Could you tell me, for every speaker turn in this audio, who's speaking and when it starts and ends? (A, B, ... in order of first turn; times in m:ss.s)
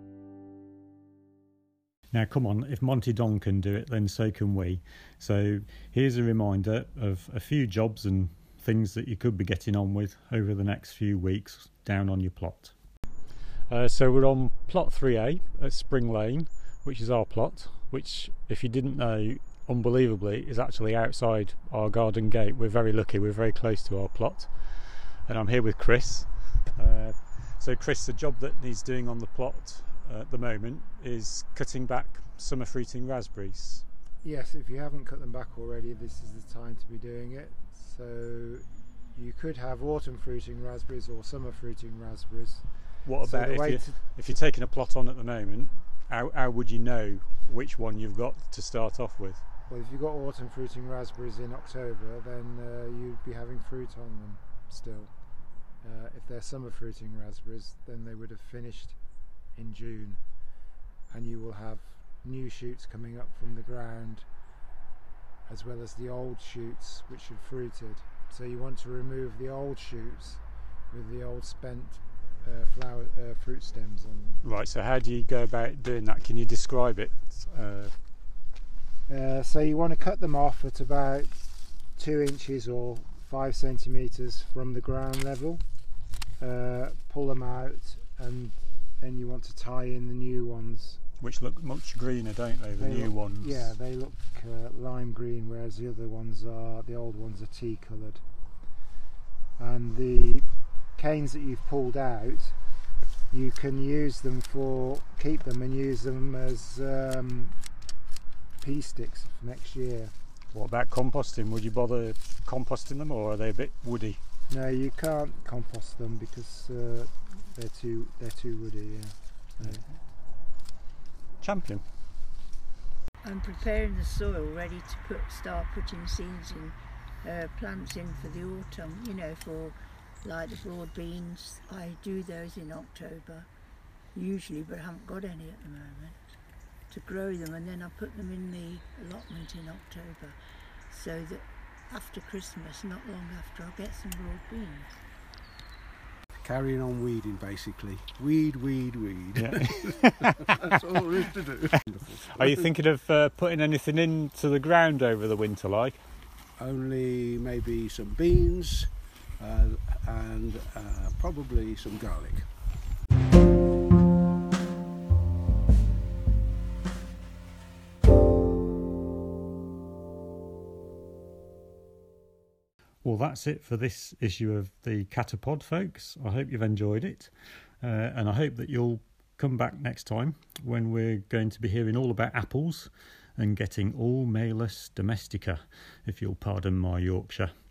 0:02.1-0:12.7 A
0:13.7-0:33.8 A
0:34.2-0:44.1 B
0:43.0-0:49.4 A
0:49.7-0:55.1 B
0:55.8-0:59.0 B
0:59.5-1:00.2 B
1:01.1-1:04.3 B
1:05.4-1:14.4 B
1:14.4-1:17.9 A
1:19.1-1:25.6 B
1:26.4-1:31.0 B
1:31.2-1:33.7 A
1:32.8-1:38.2 B
1:39.6-1:42.6 B
1:43.3-1:47.6 B
1:48.6-1:50.1 B
1:50.5-1:54.2 A
1:54.5-1:59.9 B
2:01.4-2:01.8 A
2:03.2-2:13.5 C
2:14.1-2:16.2 C
2:16.9-2:20.4 C
2:20.9-2:24.9 C
2:26.4-2:32.7 D
2:29.4-2:30.4 A
2:32.3-2:36.0 A
2:36.6-2:42.5 D
2:53.0-3:07.5 A